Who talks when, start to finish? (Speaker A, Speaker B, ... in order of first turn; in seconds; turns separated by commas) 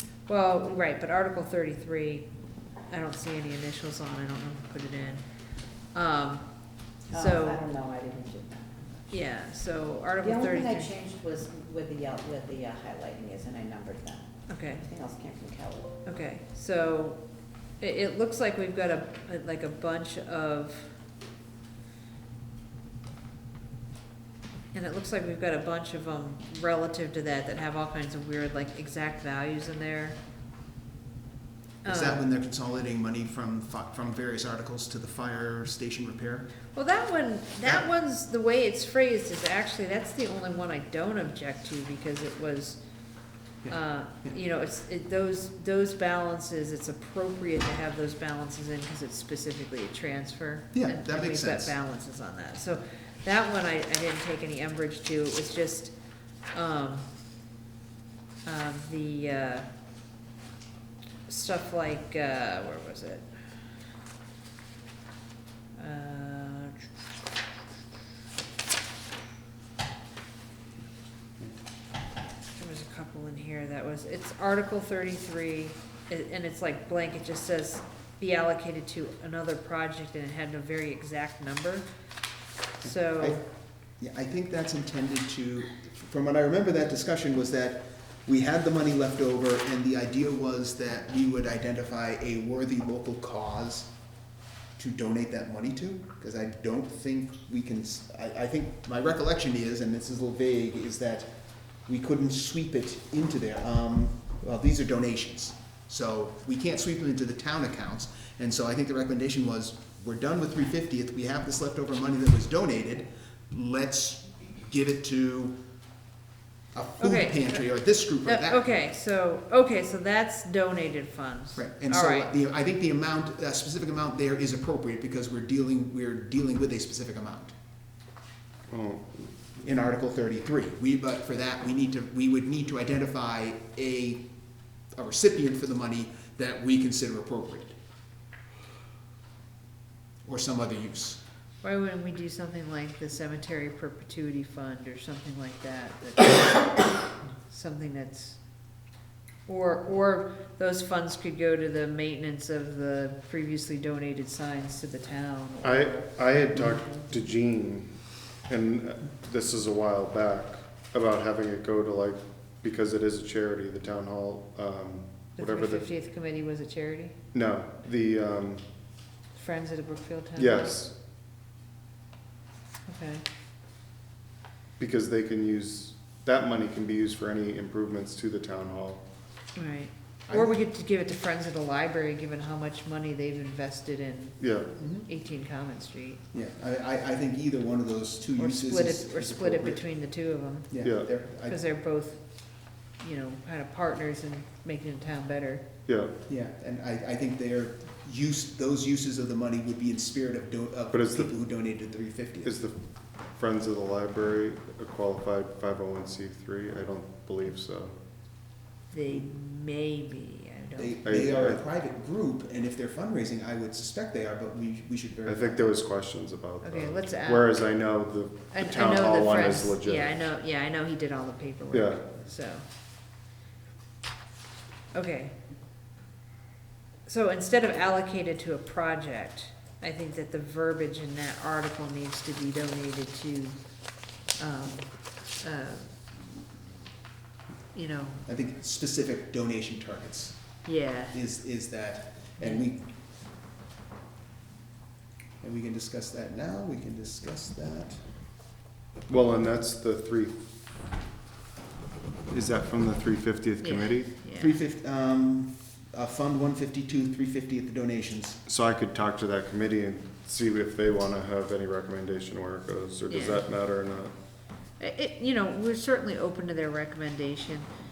Speaker A: 0.3-2.3, Speaker A: 2.9-5.3, Speaker A: 5.9-6.5, Speaker A: 7.1-7.6, Speaker B: 7.1-9.3, Speaker A: 9.1-10.9, Speaker B: 10.2-16.0, Speaker A: 14.5-14.9, Speaker A: 16.1-17.2, Speaker A: 17.8-20.9, Speaker A: 24.7-30.2, Speaker A: 31.8-32.2, Speaker C: 31.8-36.5, Speaker A: 36.7-42.8, Speaker C: 43.6-44.4, Speaker A: 43.7-55.9, Speaker C: 50.7-51.7, Speaker A: 56.5-57.1, Speaker A: 58.5-59.7, Speaker A: 61.3-63.3, Speaker A: 65.8-66.8, Speaker A: 72.6-81.9, Speaker A: 82.8-83.4, Speaker C: 82.8-93.9, Speaker C: 94.8-101.3, Speaker C: 101.9-115.5, Speaker C: 116.7-118.7, Speaker A: 117.0-117.7, Speaker A: 118.2-122.3, Speaker C: 121.5-127.5, Speaker D: 128.7-129.6, Speaker C: 129.6-134.3, Speaker C: 134.9-137.7, Speaker C: 140.2-141.2, Speaker A: 141.6-148.4, Speaker A: 149.5-156.9, Speaker D: 155.6-165.9, Speaker A: 165.4-167.2, Speaker D: 167.3-168.7, Speaker A: 169.3-170.8, Speaker D: 170.4-171.0, Speaker A: 172.9-173.2, Speaker D: 174.8-179.1, Speaker A: 179.6-186.2, Speaker C: 180.3-180.6, Speaker D: 184.4-184.7, Speaker C: 184.8-185.1, Speaker C: 186.3-189.9, Speaker A: 188.4-190.8, Speaker C: 190.7-191.6, Speaker D: 190.8-191.2, Speaker A: 191.4-192.2, Speaker A: 193.0-195.6, Speaker D: 195.9-196.2, Speaker C: 196.3-202.5, Speaker D: 200.9-201.3, Speaker D: 202.4-208.0, Speaker A: 208.9-211.0, Speaker C: 210.8-215.7, Speaker D: 211.0-211.6, Speaker D: 215.2-220.2, Speaker A: 216.6-217.6, Speaker A: 218.5-222.7, Speaker D: 221.7-222.1, Speaker A: 224.9-225.3, Speaker A: 227.1-233.6, Speaker A: 234.3-236.0, Speaker A: 237.7-238.3, Speaker C: 238.3-242.8, Speaker A: 240.7-241.2, Speaker A: 242.4-242.7, Speaker C: 245.4-248.1, Speaker D: 249.1-250.4, Speaker D: 252.3-254.2, Speaker A: 253.6-254.6, Speaker C: 254.3-258.4, Speaker D: 258.4-264.1, Speaker A: 263.1-263.4, Speaker A: 264.8-267.7